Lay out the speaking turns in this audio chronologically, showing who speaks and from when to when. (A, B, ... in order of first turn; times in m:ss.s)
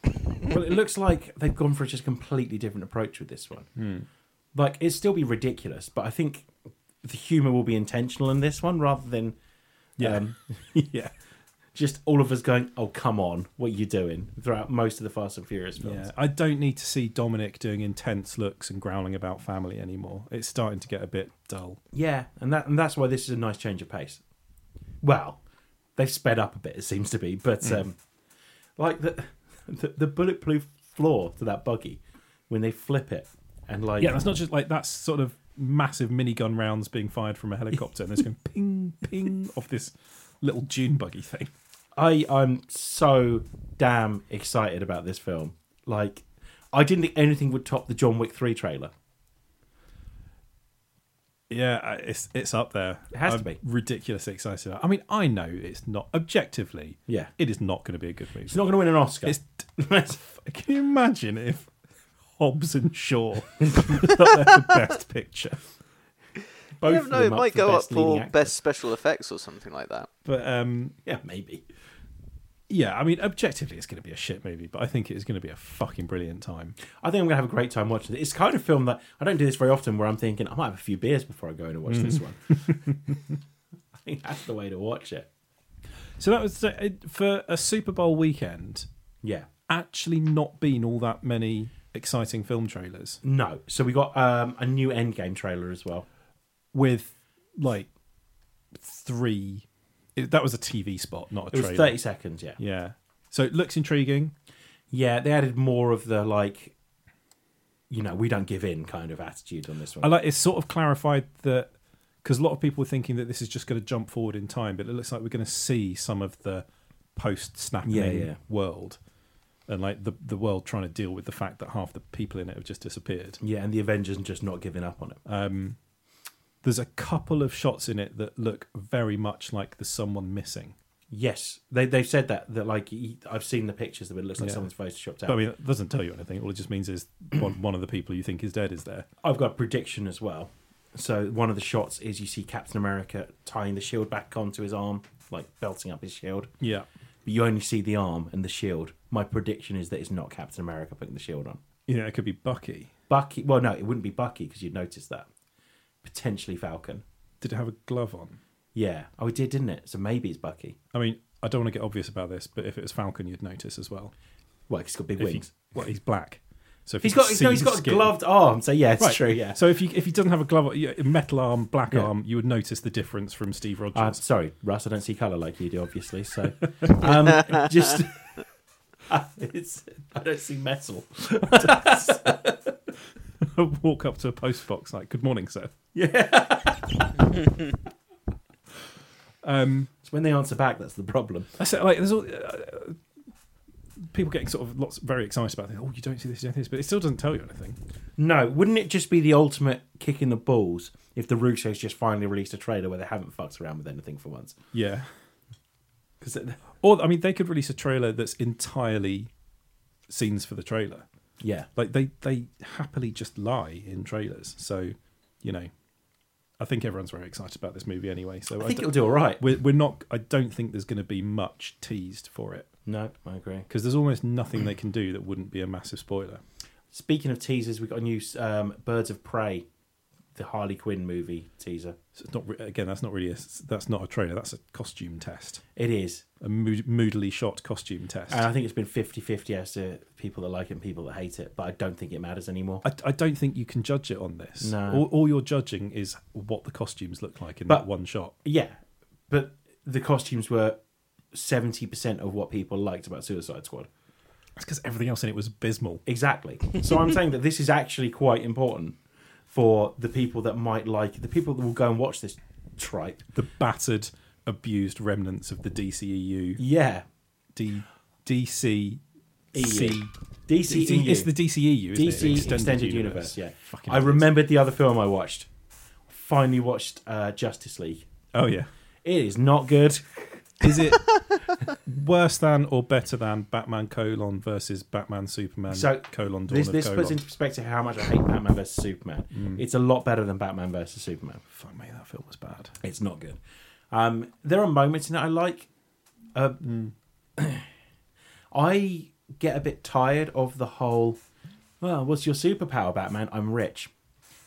0:00.4-0:03.7 A
0:03.8-0:04.1 B
0:04.5-0:09.4 A
0:10.0-0:10.2 B
0:10.0-0:10.9 A
0:10.8-0:11.1 B
0:11.7-0:16.1 A
0:15.8-0:21.8 B
0:21.9-0:24.2 A
0:25.0-0:25.4 A
0:26.0-0:28.0 A
0:28.8-0:34.2 A
0:34.0-0:41.5 B
0:42.0-0:48.9 A
0:51.5-0:58.6 B
0:53.1-0:53.6 A
0:58.5-1:00.2 A
0:59.2-1:01.7 B
1:02.3-1:05.6 B
1:03.6-1:04.0 A
1:06.8-1:08.6 A
1:06.8-1:10.1 C
1:10.2-1:11.0 B
1:11.0-1:11.6 A
1:12.7-1:16.8 B
1:16.9-1:23.2 A
1:21.9-1:23.2 B
1:24.0-1:25.3 A
1:26.2-1:28.9 B
1:29.2-1:29.5 A
1:29.7-1:33.2 B
1:33.2-1:36.0 A
1:36.7-1:37.9 B
1:38.7-1:42.0 B
1:41.5-1:42.6 A
1:42.6-1:44.3 B
1:44.9-1:46.7 A
1:47.9-1:50.1 A
1:50.0-1:51.7 B
1:52.2-1:59.0 B
1:57.8-1:58.4 A
1:59.7-2:03.4 B
2:03.4-2:05.2 A
2:05.2-2:05.8 B
2:06.6-2:10.8 B
2:11.1-2:15.4 A
2:14.4-2:14.6 B
2:15.2-2:19.1 B
2:19.2-2:26.5 A
2:26.6-2:26.9 B
2:27.2-2:31.6 A
2:31.9-2:32.9 B
2:33.1-2:35.3 A
2:36.0-2:37.0 A
2:37.4-2:38.4 B
2:38.7-2:40.8 A
2:40.9-2:44.1 B
2:44.7-2:45.5 A
2:45.2-2:48.1 B
2:47.0-2:49.6 A
2:49.0-2:54.2 B
2:53.9-2:58.4 A
2:59.1-3:02.7 A
3:01.6-3:01.9 B
3:03.4-3:05.7 B
3:05.9-3:07.2 A
3:09.4-3:09.9 B
3:10.0-3:11.5 A
3:11.6-3:13.0 B
3:14.0-3:17.8 B
3:18.2-3:24.6 A
3:24.7-3:25.1 B
3:26.2-3:26.6 A
3:26.8-3:29.3 B
3:30.1-3:31.0 B
3:31.4-3:31.7 A
3:31.8-3:35.7 B
3:36.6-3:42.7 B
3:38.6-3:39.4 A
3:42.8-3:43.7 A
3:43.7-3:46.4 B
3:46.9-3:49.6 A
3:50.3-3:52.0 A
3:52.1-3:55.6 B
3:55.8-3:56.2 A
3:56.4-3:58.5 B
3:58.3-4:02.8 A
4:02.8-4:08.3 B
4:04.6-4:05.1 A
4:08.4-4:08.8 A
4:09.3-4:10.8 A
4:11.3-4:13.9 A
4:14.6-4:16.0 B
4:16.0-4:23.2 A
4:23.3-4:26.6 B
4:26.6-4:27.0 A
4:27.5-4:29.0 B
4:29.5-4:30.1 B
4:29.5-4:31.3 A
4:30.6-4:34.3 B
4:31.9-4:35.5 A
4:36.1-4:38.1 A
4:38.3-4:38.7 B
4:39.0-4:40.8 A
4:40.6-4:47.2 B
4:45.7-4:51.4 A
4:49.3-4:49.6 B
4:51.5-4:52.8 B
4:52.8-4:53.4 A
4:53.9-4:55.7 A
4:56.3-4:56.6 A
4:56.6-4:56.9 B
4:57.4-4:57.7 A
4:58.5-5:01.2 A
5:01.8-5:03.9 A